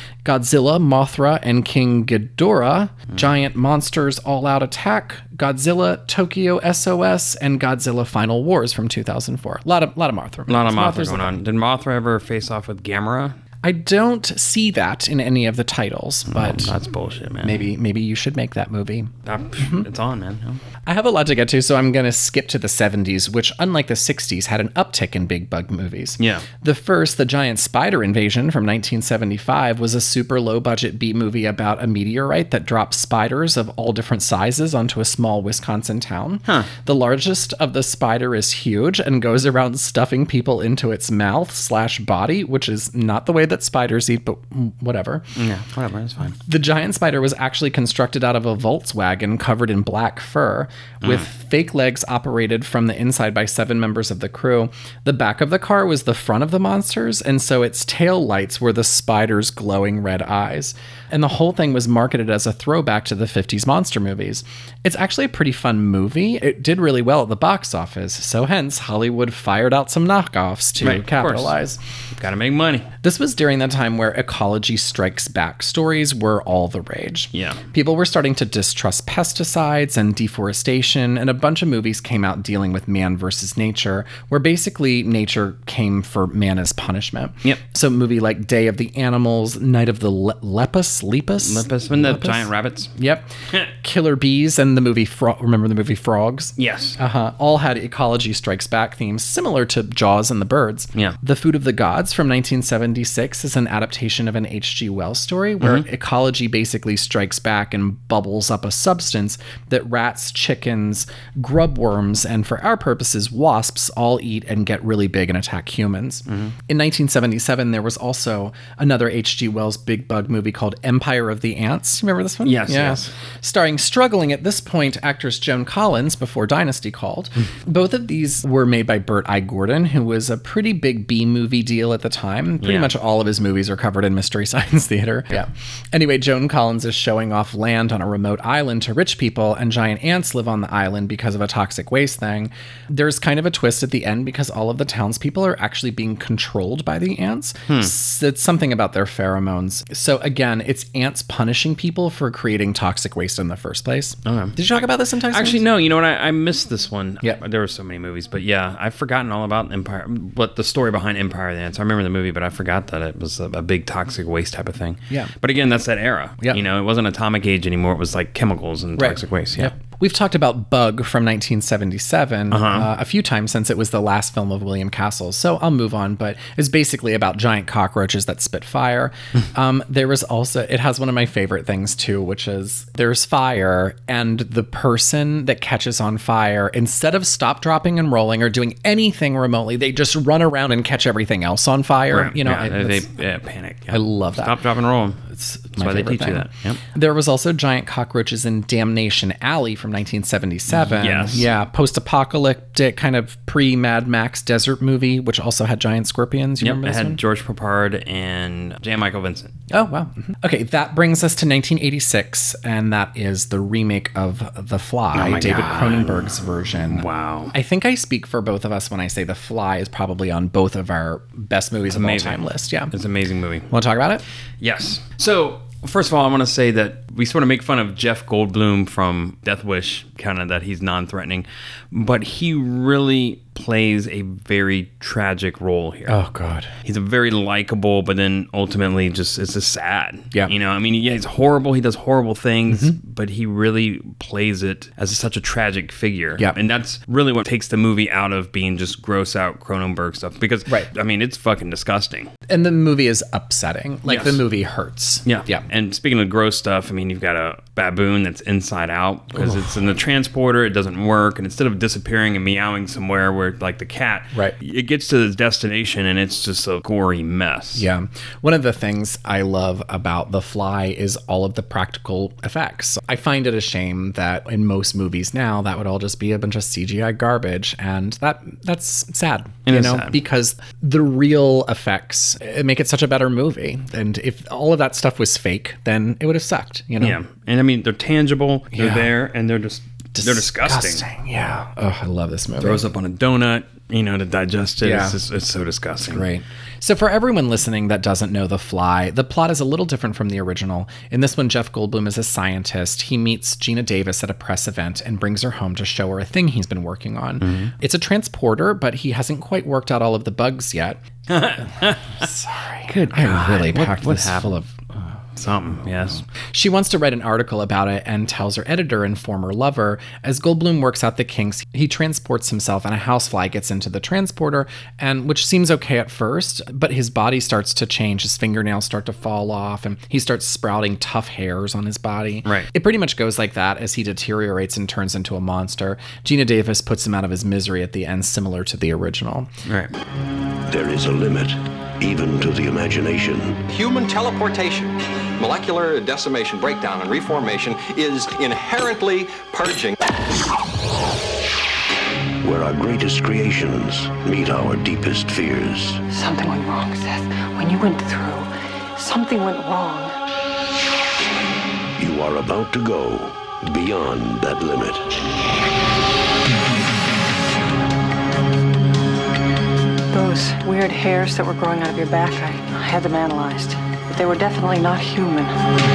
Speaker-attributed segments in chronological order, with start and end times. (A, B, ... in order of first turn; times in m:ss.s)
0:00.2-0:11.4 A
0:10.5-0:13.4 B
0:13.6-0:16.7 A
0:16.3-0:17.6 B
0:17.4-0:19.9 A
0:19.3-0:20.6 B
0:20.9-0:45.3 A
0:26.2-0:26.5 B
0:45.4-0:46.4 B
0:46.4-1:11.8 A
1:10.8-1:11.5 B
1:12.2-1:12.9 B
1:13.0-2:35.6 A
1:17.3-1:17.6 B
1:31.4-1:32.9 B
1:36.6-1:37.0 B
1:56.3-1:56.6 B
2:02.4-2:03.1 B
2:12.6-2:12.9 B
2:27.7-2:27.9 B
2:34.3-2:34.6 B
2:35.3-2:49.7 B
2:49.0-3:13.0 A
2:52.5-2:52.9 B
3:12.1-3:15.2 B
3:13.9-3:14.6 A
3:15.3-3:27.2 A
3:15.8-3:16.8 B
3:21.0-3:21.5 B
3:26.6-3:29.5 B
3:29.7-3:42.9 A
3:35.1-3:37.5 B
3:41.9-3:43.7 B
3:43.7-3:44.2 A
3:44.6-3:56.2 B
3:56.1-3:56.7 A
3:56.8-4:12.3 B
4:02.7-4:03.0 A
4:12.5-4:15.6 A
4:14.1-4:14.4 B
4:15.3-4:27.9 B
4:19.4-4:19.8 A
4:27.8-4:47.2 A
4:39.7-4:40.2 B
4:47.0-4:51.0 B
4:48.7-4:49.1 A
4:50.2-4:52.8 A
4:52.6-4:56.2 B
4:54.8-4:55.2 A
4:56.0-5:11.0 A
5:07.4-5:07.7 B
5:11.3-5:12.2 B
5:12.2-5:14.7 A
5:12.9-5:14.6 B
5:15.4-5:16.2 B
5:16.5-5:39.5 A
5:39.7-5:39.9 B
5:40.7-5:43.6 C
5:43.7-5:50.0 D
5:52.4-5:56.0 C
5:56.1-6:00.1 E
6:02.0-6:05.1 C
6:10.1-6:15.6 E